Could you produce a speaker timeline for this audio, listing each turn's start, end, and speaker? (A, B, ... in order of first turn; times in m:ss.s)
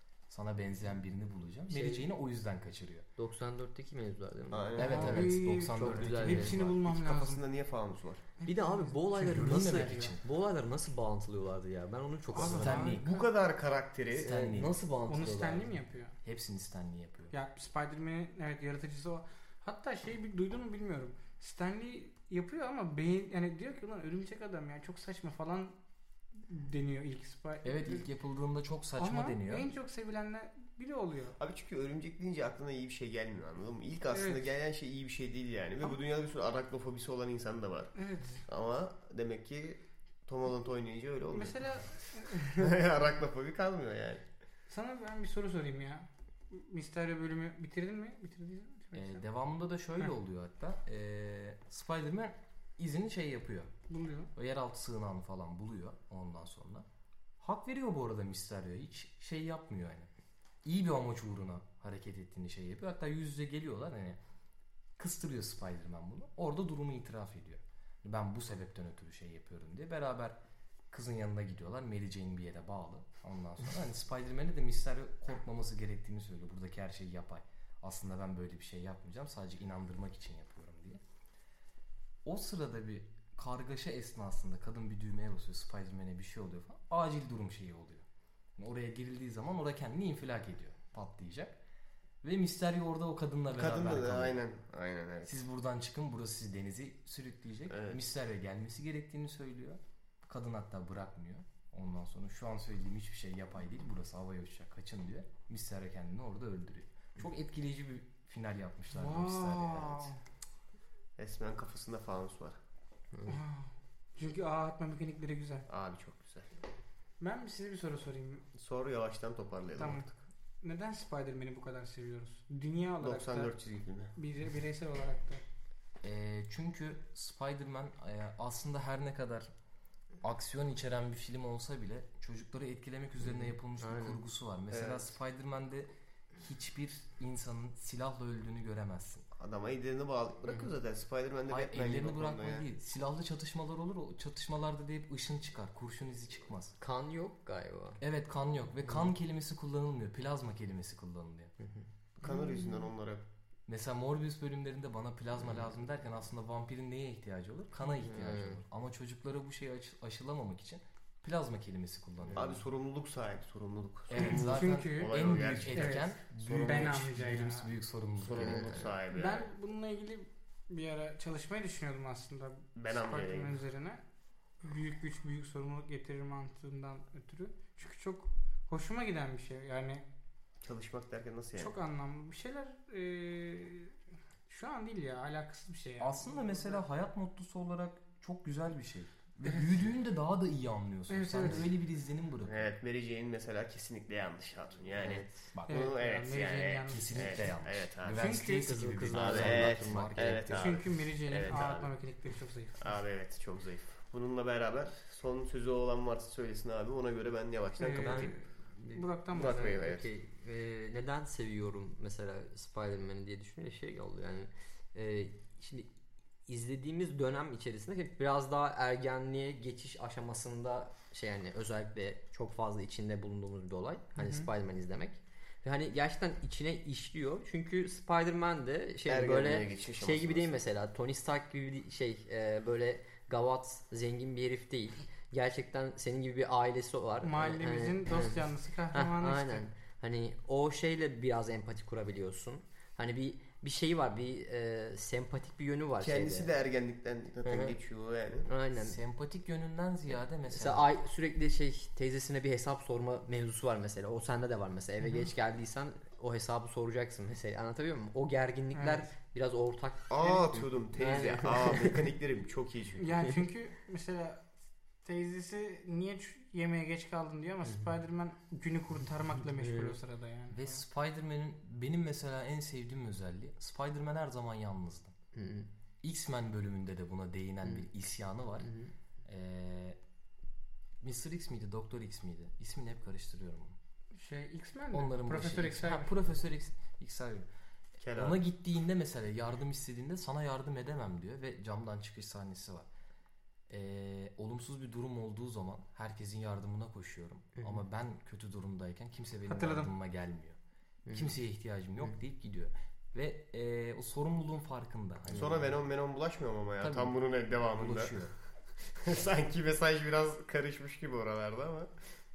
0:00.3-0:03.1 A
0:01.7-0:02.0 B
0:03.2-0:06.6 B
0:04.5-0:05.2 C
0:04.8-0:06.7 A
0:04.8-0:07.4 D
0:06.5-0:08.3 C
0:08.4-0:10.2 D
0:08.4-0:13.0 B
0:09.2-0:10.2 A
0:12.3-0:13.3 D
0:12.3-0:13.1 A
0:12.9-0:14.3 C
0:14.2-0:15.7 B
0:14.2-0:14.7 A
0:15.1-0:16.2 D
0:16.2-0:17.3 A
0:17.3-0:25.8 D
0:26.5-0:28.0 D
0:27.6-0:29.7 A
0:29.0-0:31.4 D
0:31.4-0:37.9 C
0:34.1-0:34.4 D
0:38.0-0:38.4 D
0:38.5-0:41.6 C
0:41.3-0:42.8 D
0:42.3-0:44.2 C
0:44.7-0:49.2 D
0:48.9-0:53.7 A
0:53.9-0:54.3 D
0:54.4-0:56.9 A
0:57.4-1:00.1 A
1:00.6-1:04.2 A
1:05.0-1:10.4 A
1:10.9-1:21.0 A
1:22.2-1:28.0 A
1:28.6-1:31.6 A
1:32.2-1:34.4 A
1:33.6-1:35.3 C
1:35.3-1:50.1 A
1:37.7-1:38.0 C
1:48.9-1:50.2 D
1:51.2-1:52.6 C
1:53.3-1:55.7 D
1:55.7-1:56.5 C
1:57.2-1:58.5 D
1:58.6-2:00.2 C
1:59.8-2:00.1 D
2:00.6-2:03.5 D
2:03.0-2:04.1 C
2:04.2-2:05.4 D
2:06.0-2:09.5 A
2:10.2-2:15.9 A
2:13.2-2:14.2 B
2:14.7-2:15.1 C
2:16.4-2:19.3 A
2:19.4-2:22.6 C
2:20.4-2:20.7 B
2:21.5-2:26.7 A
2:26.8-2:28.0 B
2:28.0-2:31.5 A
2:31.6-2:31.9 B
2:32.2-2:33.2 C
2:32.2-2:32.9 D
2:33.7-2:42.6 A
2:35.4-2:35.7 B
2:37.9-2:38.6 B
2:42.2-2:42.6 B
2:42.4-2:46.0 C
2:44.1-2:49.0 A
2:44.2-2:47.7 D
2:48.2-2:49.5 C
2:48.3-2:48.8 B
2:49.1-2:54.0 D
2:52.8-2:53.6 C
2:54.6-3:00.0 D
3:00.6-3:01.7 C
3:01.6-3:03.9 D
3:04.5-3:06.8 D
3:06.0-3:12.7 A
3:11.1-3:11.6 D
3:12.4-3:18.3 C
3:15.0-3:15.5 B
3:15.5-3:15.8 A
3:15.7-3:17.5 D
3:16.9-3:20.6 A
3:18.1-3:18.9 D
3:18.6-3:20.7 B
3:19.1-3:21.9 C
3:20.5-3:22.9 D
3:22.8-3:28.4 C
3:27.8-3:29.6 D
3:27.9-3:35.9 B
3:29.3-3:30.1 C
3:36.5-4:06.5 B
3:44.2-3:44.5 D
3:49.1-3:50.6 C
3:57.2-3:59.6 D
4:06.0-4:08.5 C
4:07.4-4:07.8 B
4:08.5-4:09.0 B
4:08.8-4:10.9 A
4:10.5-4:22.1 B
4:18.7-4:19.1 D
4:20.1-4:23.1 C
4:23.0-4:24.4 D
4:25.0-4:30.8 D
4:30.5-4:35.2 A
4:35.3-4:35.7 B
4:36.0-4:38.7 A
4:38.6-4:38.9 B
4:39.2-4:40.0 A
4:41.0-4:43.8 A
4:44.1-4:46.1 D
4:44.9-4:47.5 A
4:48.0-4:48.4 C
4:48.2-4:52.9 A
4:53.7-5:00.6 A
4:57.6-4:57.8 B
4:59.5-4:59.9 D
5:01.0-5:01.3 B
5:01.1-5:05.7 A
5:05.3-5:05.5 B
5:05.3-5:08.2 C
5:06.8-5:07.2 A
5:07.7-5:08.3 A
5:08.9-5:11.9 C